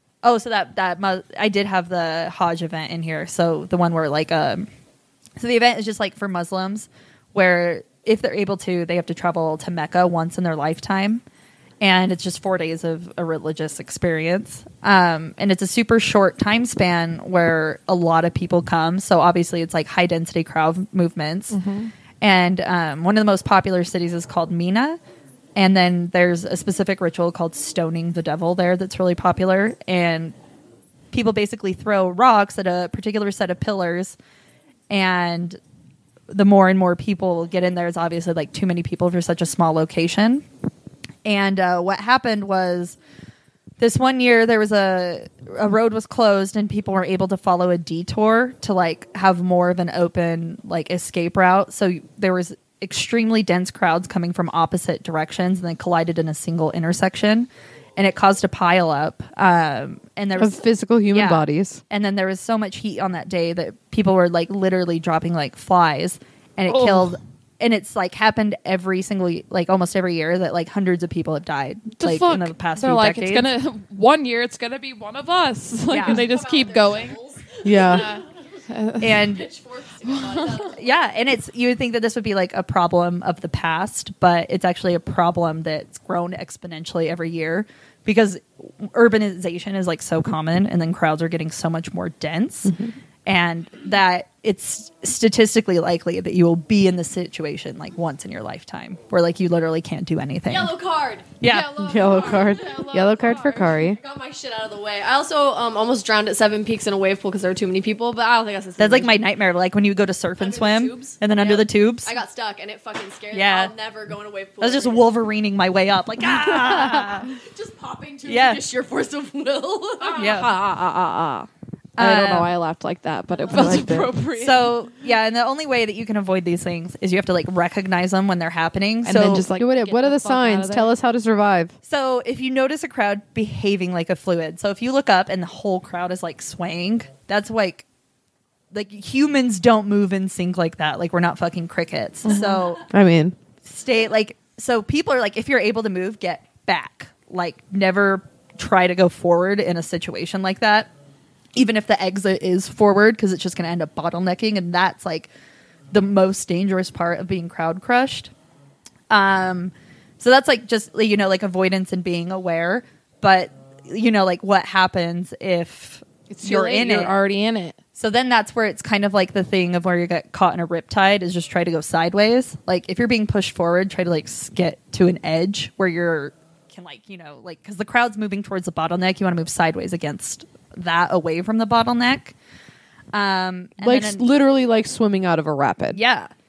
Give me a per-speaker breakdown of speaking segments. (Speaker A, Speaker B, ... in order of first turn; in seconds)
Speaker A: 0.2-4.7, 5.4-11.2, 11.8-21.6, 22.2-25.0, 25.6-30.4, 31.1-34.1, 34.9-35.6, 36.3-40.4, 41.2-43.0, 43.8-73.5, 75.9-76.3, 79.0-79.5, 80.7-92.7, 93.2-100.7, 101.4-101.8, 108.8-112.2, 113.3-113.7, 114.6-117.3, 118.2-118.6, 120.1-120.6, 122.0-122.5, 124.3-129.5, 131.8-137.8, 138.7-142.8, 143.6-150.9, 151.5-155.3, 155.9-158.3, 159.1-167.1, 167.9-182.3, 183.1-184.2, 185.9-186.3
Speaker B: 21.5-21.9, 66.7-67.0, 72.0-77.2, 77.8-79.2, 80.0-80.7, 101.5-103.8, 120.2-120.5, 123.4-124.7, 129.0-130.9, 142.2-142.6, 166.3-167.8
Speaker C: 60.4-61.8, 77.6-78.0, 92.7-92.9, 101.7-104.0, 123.5-124.1, 129.5-131.7, 142.9-143.3, 183.8-186.0
Speaker D: 76.0-78.2, 79.2-81.0, 100.5-101.4, 102.0-103.0, 103.8-109.2, 110.4-115.1, 117.2-121.5, 122.0-123.8